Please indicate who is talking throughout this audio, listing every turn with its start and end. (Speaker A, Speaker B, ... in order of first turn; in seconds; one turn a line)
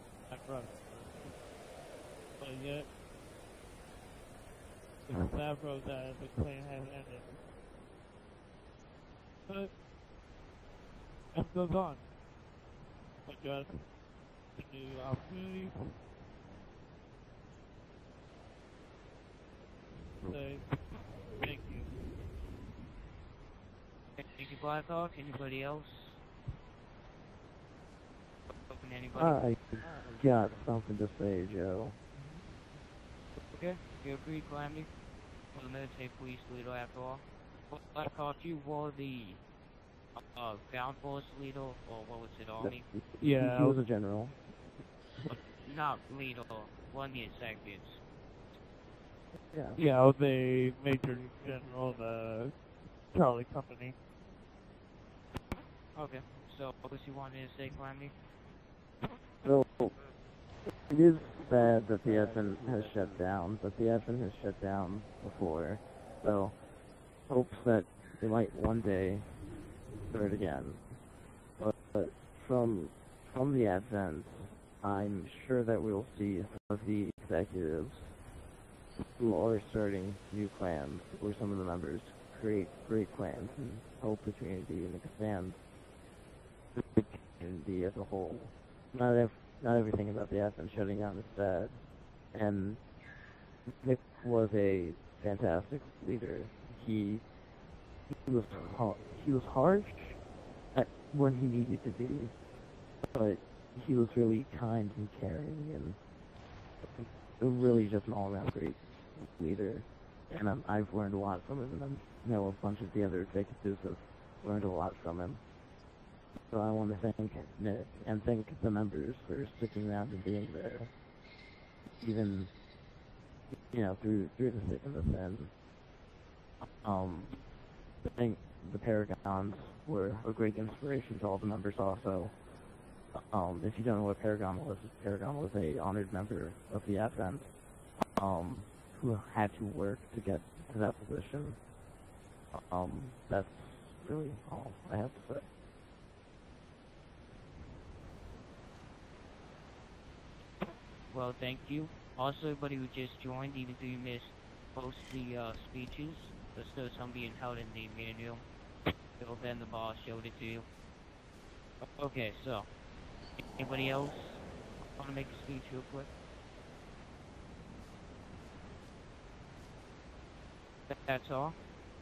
Speaker A: 0.3-1.5
Speaker A: 2.4-3.0
Speaker A: 5.0-7.4
Speaker A: 9.4-9.8
Speaker A: 11.3-12.1
Speaker A: 13.2-13.9
Speaker A: 14.5-16.0
Speaker A: 20.2-21.9
Speaker B: 24.2-26.2
Speaker B: 28.7-29.5
Speaker C: 29.1-32.0
Speaker B: 32.1-32.5
Speaker B: 33.5-34.9
Speaker B: 35.5-39.4
Speaker B: 40.3-42.9
Speaker C: 42.6-44.6
Speaker A: 43.2-43.8
Speaker B: 45.6-48.0
Speaker C: 49.4-49.8
Speaker A: 49.7-54.0
Speaker B: 51.1-52.0
Speaker B: 55.9-58.1
Speaker C: 59.4-60.0
Speaker C: 60.6-78.2
Speaker A: 62.0-62.7
Speaker C: 79.1-85.6
Speaker C: 86.7-92.9
Speaker C: 93.8-97.5
Speaker C: 98.1-102.4
Speaker C: 103.1-106.0
Speaker C: 106.8-115.5
Speaker C: 116.5-121.0
Speaker C: 122.0-122.5
Speaker C: 123.5-125.5
Speaker C: 126.8-127.5
Speaker C: 128.0-141.7
Speaker C: 142.5-145.5
Speaker B: 151.1-158.4
Speaker B: 159.2-160.7
Speaker B: 161.9-162.7
Speaker B: 163.5-166.1
Speaker B: 170.9-171.6